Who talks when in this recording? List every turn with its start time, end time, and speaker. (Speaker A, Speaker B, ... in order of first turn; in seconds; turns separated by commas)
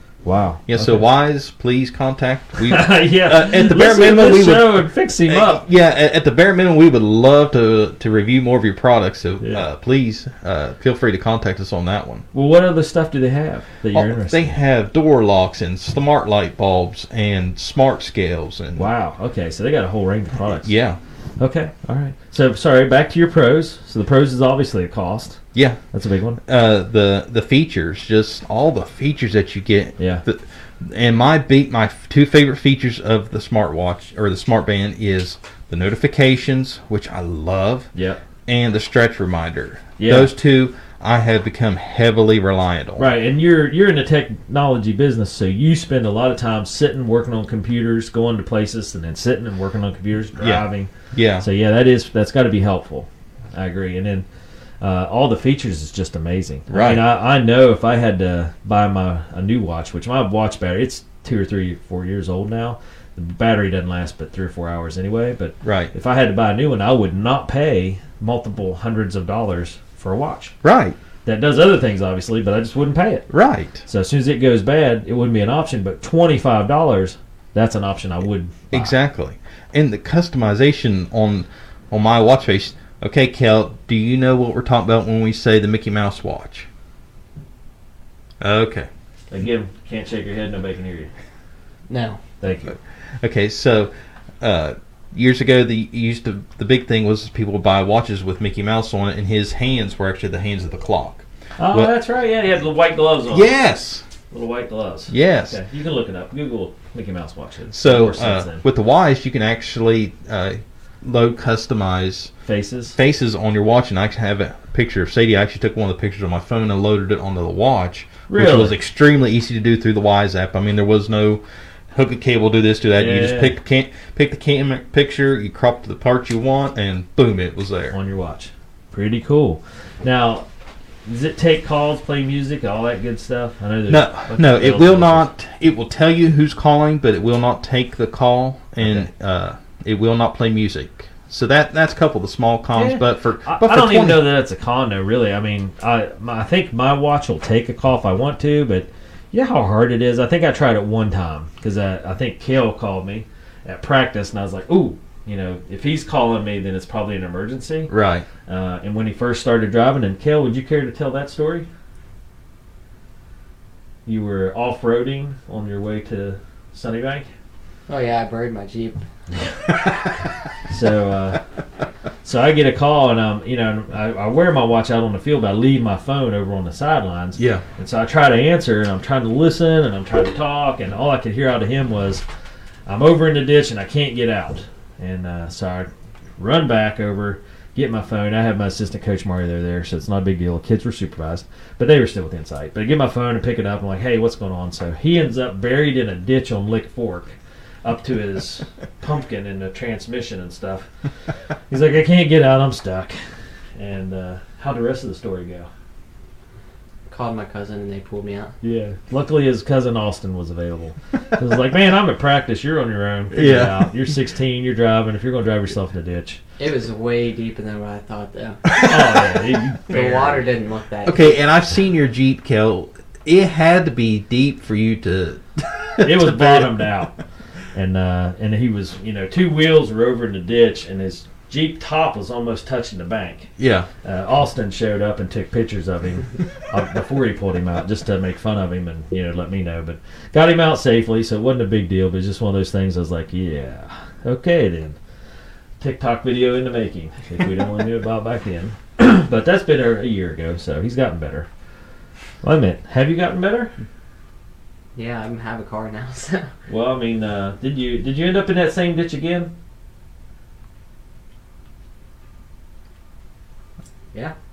Speaker A: 0.2-1.1, Speaker B: 0.7-12.3, Speaker A: 2.6-5.6, Speaker A: 9.4-9.7, Speaker A: 12.3-14.6, Speaker B: 13.9-18.9, Speaker A: 18.8-20.7, Speaker B: 20.6-21.0, Speaker A: 21.4-25.4, Speaker B: 25.5-25.8, Speaker A: 25.9-26.4, Speaker B: 26.5-37.9, Speaker A: 30.0-30.2, Speaker A: 37.9-38.2, Speaker B: 38.5-43.1, Speaker A: 40.0-40.3, Speaker A: 43.0-54.3, Speaker B: 50.4-51.5, Speaker A: 54.8-70.6, Speaker B: 56.7-57.0, Speaker B: 65.6-65.9, Speaker B: 70.6-71.0, Speaker A: 71.2-73.3, Speaker B: 73.3-73.8, Speaker A: 73.9-78.9, Speaker B: 78.7-86.7, Speaker B: 88.4-88.9, Speaker A: 89.3-91.1, Speaker C: 91.9-92.2, Speaker A: 92.4-92.8, Speaker B: 93.2-101.9, Speaker A: 101.6-103.5, Speaker B: 103.3-104.0, Speaker A: 104.3-108.6, Speaker B: 105.1-105.6, Speaker B: 107.7-112.3, Speaker A: 112.5-113.0, Speaker B: 113.0-128.0, Speaker A: 118.3-118.8, Speaker A: 123.0-123.6, Speaker A: 127.9-130.5, Speaker A: 131.1-135.3, Speaker B: 133.9-144.3, Speaker A: 138.8-139.1, Speaker A: 142.7-157.9, Speaker B: 157.9-158.3, Speaker A: 158.5-161.7, Speaker A: 164.1-167.3, Speaker C: 167.9-169.0, Speaker B: 169.9-170.1, Speaker A: 170.7-171.4, Speaker A: 172.2-182.2, Speaker B: 177.4-177.6, Speaker A: 182.9-200.9, Speaker A: 201.7-203.2, Speaker A: 203.8-205.7, Speaker C: 207.1-208.6, Speaker A: 208.6-216.4, Speaker B: 213.3-213.9, Speaker C: 216.6-218.6, Speaker B: 218.7-219.9, Speaker A: 218.8-220.4, Speaker C: 219.9-221.4, Speaker B: 221.1-226.7, Speaker A: 226.0-227.1, Speaker A: 227.7-233.5, Speaker B: 233.6-233.9, Speaker A: 234.0-245.0, Speaker A: 245.8-251.5, Speaker A: 252.4-253.7, Speaker C: 255.0-256.5, Speaker A: 256.7-259.5